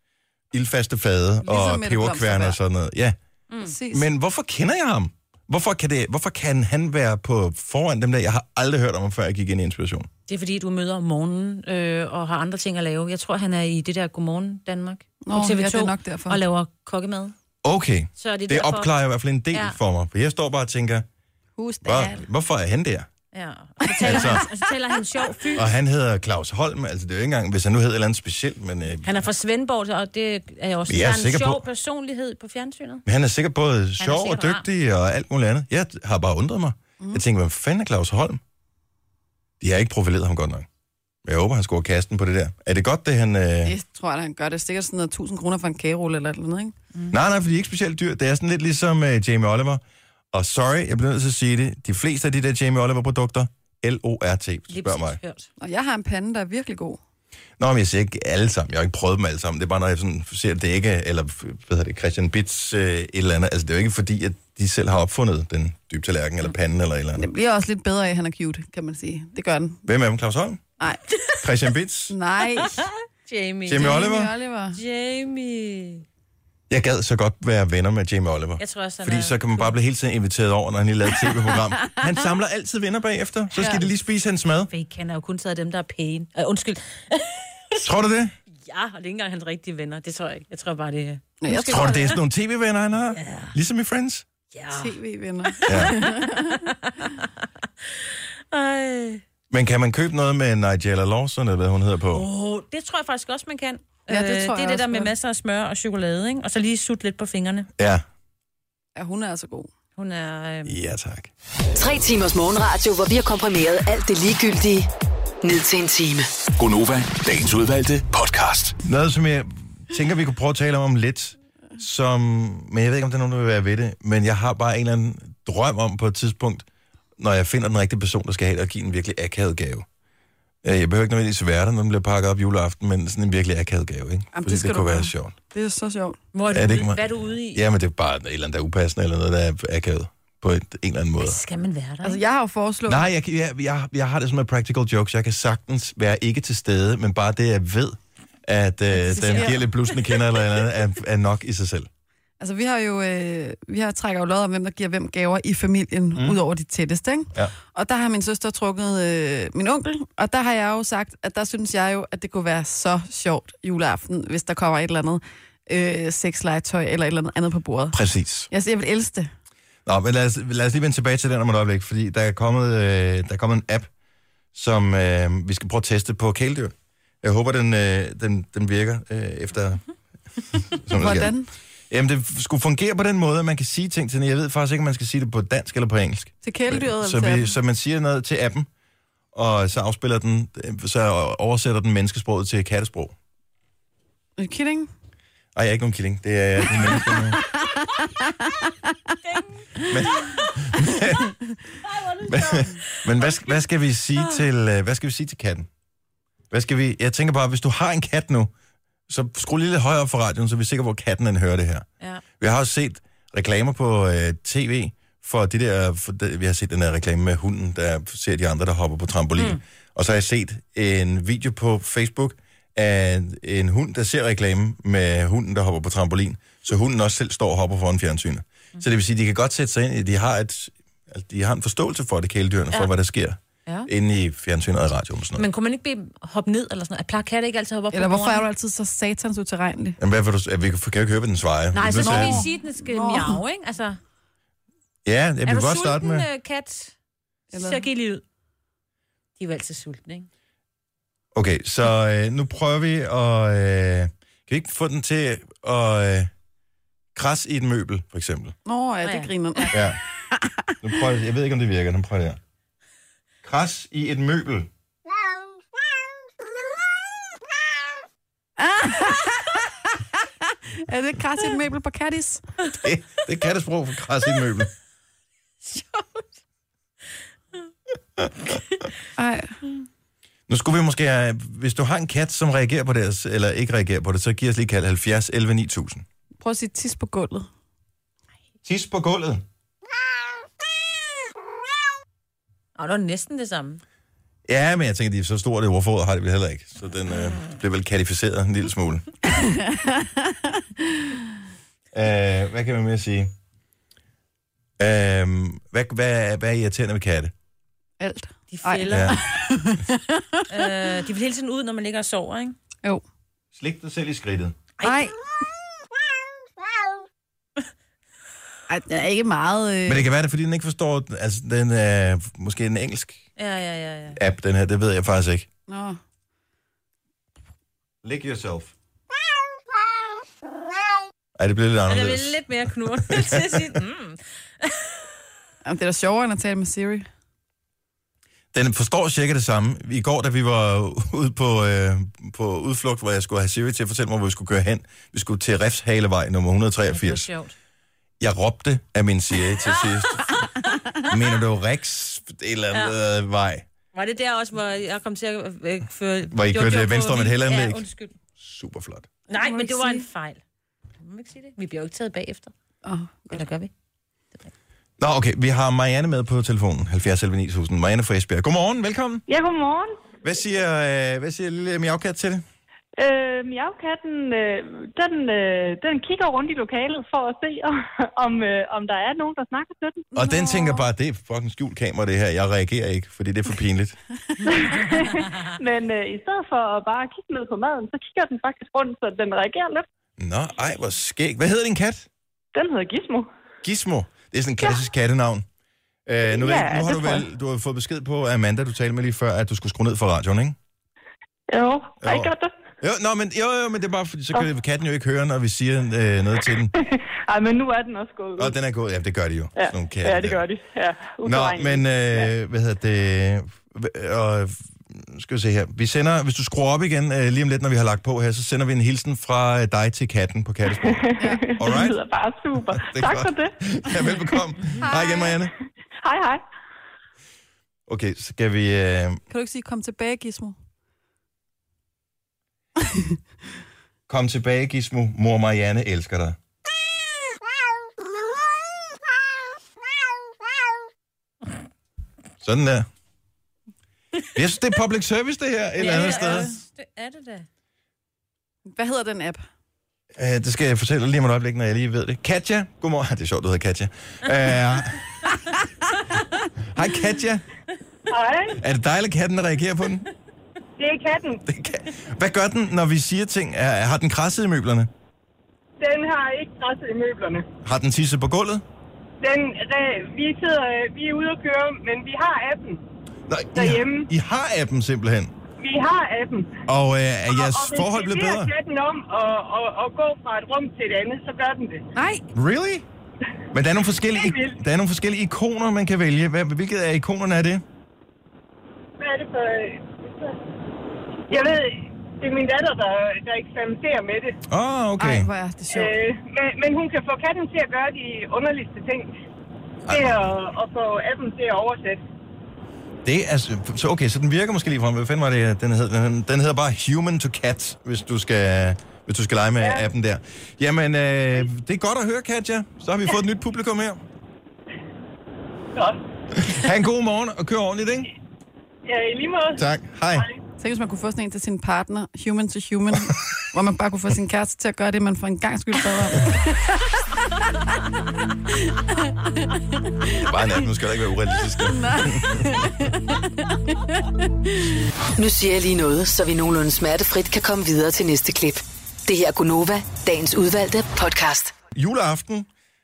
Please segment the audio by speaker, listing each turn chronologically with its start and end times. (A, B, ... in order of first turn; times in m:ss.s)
0:00.5-0:03.2 A
0:01.4-0:02.6 B
0:03.6-0:04.1 B
0:03.9-0:10.1 A
0:10.3-0:17.4 C
0:15.2-0:16.4 B
0:17.6-0:21.1 A
0:18.2-0:18.9 C
0:21.6-0:22.2 B
0:21.9-0:23.1 A
0:23.3-0:25.7 C
0:23.8-0:24.5 B
0:24.0-0:24.5 A
0:25.5-0:29.1 A
0:29.0-0:33.0 C
0:30.9-0:31.6 A
0:33.1-0:38.4 A
0:34.0-0:34.6 C
0:39.6-0:40.7 A
0:41.2-0:43.8 A
0:43.6-0:46.8 B
0:47.1-0:55.2 A
0:54.7-0:55.5 C
0:55.6-0:57.0 B
0:57.6-1:07.3 A
1:07.2-1:09.8 B
1:09.8-1:10.6 A
1:11.4-1:12.2 A
1:12.1-1:12.8 B
1:12.7-1:14.2 C
1:13.7-1:14.3 A
1:13.8-1:14.8 B
1:14.7-1:16.0 C
1:16.7-1:24.7 A
1:18.6-1:19.8 C
1:23.6-1:23.8 B
1:24.7-1:27.8 C
1:27.8-1:28.4 A
1:28.7-1:32.0 C
1:31.4-1:32.2 B
1:31.5-1:34.3 A
1:33.2-1:33.5 C
1:34.5-1:37.3 C
1:34.7-1:36.7 B
1:35.7-1:36.0 A
1:38.0-1:39.2 C
1:39.5-1:42.3 A
1:42.1-1:47.7 C
1:44.1-1:45.1 B
1:47.8-1:48.0 A
1:49.0-1:49.7 B
1:50.0-1:50.8 C
1:50.6-1:51.3 A
1:51.8-1:54.9 D
1:55.4-1:56.3 D
1:56.6-1:58.8 E
1:58.8-2:06.7 A
2:07.2-2:09.9 A
2:10.6-2:15.3 A
2:14.3-2:16.2 B
2:16.3-2:17.6 C
2:16.5-2:21.4 A
2:21.2-2:22.2 C
2:22.0-2:23.1 B
2:22.9-2:31.9 A
2:29.0-2:29.5 C
2:29.3-2:29.6 B
2:32.4-2:48.0 B
2:47.9-2:48.5 A
2:48.5-2:49.3 B
2:49.9-2:53.9 A
2:54.5-2:59.8 A
3:00.7-3:01.3 A
3:00.9-3:01.5 B
3:01.9-3:08.7 A
3:06.4-3:07.5 B
3:09.3-3:13.2 A
3:14.4-3:14.9 B
3:15.6-3:17.4 A
3:17.0-3:18.7 B
3:19.2-3:20.6 C
3:19.9-3:21.3 A
3:21.8-3:23.6 C
3:22.2-3:25.7 A
3:24.2-3:24.4 C
3:26.5-3:28.5 A
3:29.1-3:31.9 A
3:32.4-3:55.5 A
3:55.4-3:58.5 C
3:57.9-4:00.0 B
4:00.0-4:02.4 A
4:01.7-4:04.0 C
4:01.9-4:03.4 B
4:05.0-4:06.3 A
4:05.5-4:06.9 C
4:07.5-4:07.8 B
4:07.5-4:08.2 C
4:09.4-4:10.3 C
4:11.3-4:16.3 A
4:17.2-4:18.5 A
4:18.7-4:20.8 B
4:19.0-4:19.8 C
4:19.7-4:20.0 A
4:20.8-4:22.4 A
4:23.4-4:24.7 A
4:28.6-4:32.5 B
4:32.7-4:34.7 A
4:35.8-4:36.0 C
4:39.2-4:39.6 B
4:40.5-4:46.0 A
4:46.4-4:47.5 B
4:48.6-4:49.4 A
4:52.8-4:53.8 C
4:54.5-4:59.1 A
4:59.4-5:01.1 B
5:01.9-5:03.3 A
5:04.8-5:07.3 A
5:08.0-5:10.5 B
5:08.5-5:09.2 C
5:08.9-5:09.2 A
5:10.5-5:12.6 C
5:13.6-5:14.6 A
5:14.8-5:15.2 B
5:18.7-5:20.1 B
5:19.9-5:23.2 A
5:23.4-5:24.2 C
5:24.1-5:25.5 A
5:25.7-5:26.0 B
5:28.0-5:28.7 A
5:31.4-5:33.7 A
5:31.9-5:35.0 C
5:35.6-5:37.1 B
5:38.5-5:47.3 A
5:46.9-5:47.5 C
5:48.2-5:50.3 A
5:51.0-5:53.7 A
5:53.9-5:58.2 C
5:56.3-5:57.8 A
5:58.4-5:59.1 A
5:59.3-6:00.4 C
5:59.3-6:00.1 B
6:01.0-6:02.5 C
6:02.8-6:03.4 B
6:03.3-6:03.7 C
6:05.0-6:09.2 A
6:09.3-6:10.0 F
6:10.2-6:12.4 A
6:13.0-6:20.1 F
6:20.1-6:20.8 B
6:20.1-6:24.0 A
6:24.5-6:29.9 F
6:30.2-6:32.1 A
6:32.5-6:33.3 F
6:33.6-6:35.5 A
6:36.1-6:40.6 A
6:36.3-6:37.2 F
6:41.5-6:42.5 F
6:42.0-6:46.7 A
6:46.8-6:48.5 F
6:48.4-6:50.4 A
6:49.6-6:52.3 F
6:51.2-7:02.0 A
7:00.8-7:04.4 F
7:01.2-7:01.4 B
7:02.7-7:05.5 A
7:04.8-7:05.4 B
7:06.0-7:06.4 F
7:07.9-7:09.2 A
7:09.3-7:10.6 B
7:14.1-7:16.4 A
7:22.4-7:22.9 A
7:24.3-7:26.5 A
7:25.8-7:27.5 C
7:25.9-7:26.5 B
7:28.7-7:29.4 B
7:30.2-7:35.2 A
7:36.7-7:37.4 A
7:38.1-7:38.6 G
7:38.5-7:40.1 A
7:40.8-7:41.4 G
7:41.5-7:44.9 A
7:45.8-7:47.5 G
7:47.6-7:48.6 A
7:49.2-7:52.8 G
7:53.3-7:55.3 A
7:53.6-7:54.1 G
7:55.6-7:56.6 G
7:56.7-7:58.5 A
7:57.3-8:01.9 G
8:02.0-8:02.2 B
8:02.3-8:02.9 A
8:03.5-8:07.6 A
8:04.1-8:04.6 G
8:09.0-8:10.4 G
8:11.3-8:14.4 G
8:14.5-8:15.3 A
8:15.0-8:16.0 B
8:15.7-8:19.1 G
8:19.9-8:20.3 A
8:19.9-8:22.0 G
8:23.0-8:34.0 A
8:29.6-8:29.9 G
8:35.8-8:36.0 G
8:36.3-8:38.1 A
8:38.9-8:40.4 G
8:39.6-8:40.3 A
8:40.6-8:46.6 B
8:48.7-8:49.2 B
8:50.2-8:52.6 A
8:51.7-8:54.7 B
8:55.2-9:01.5 D
9:01.7-9:02.5 A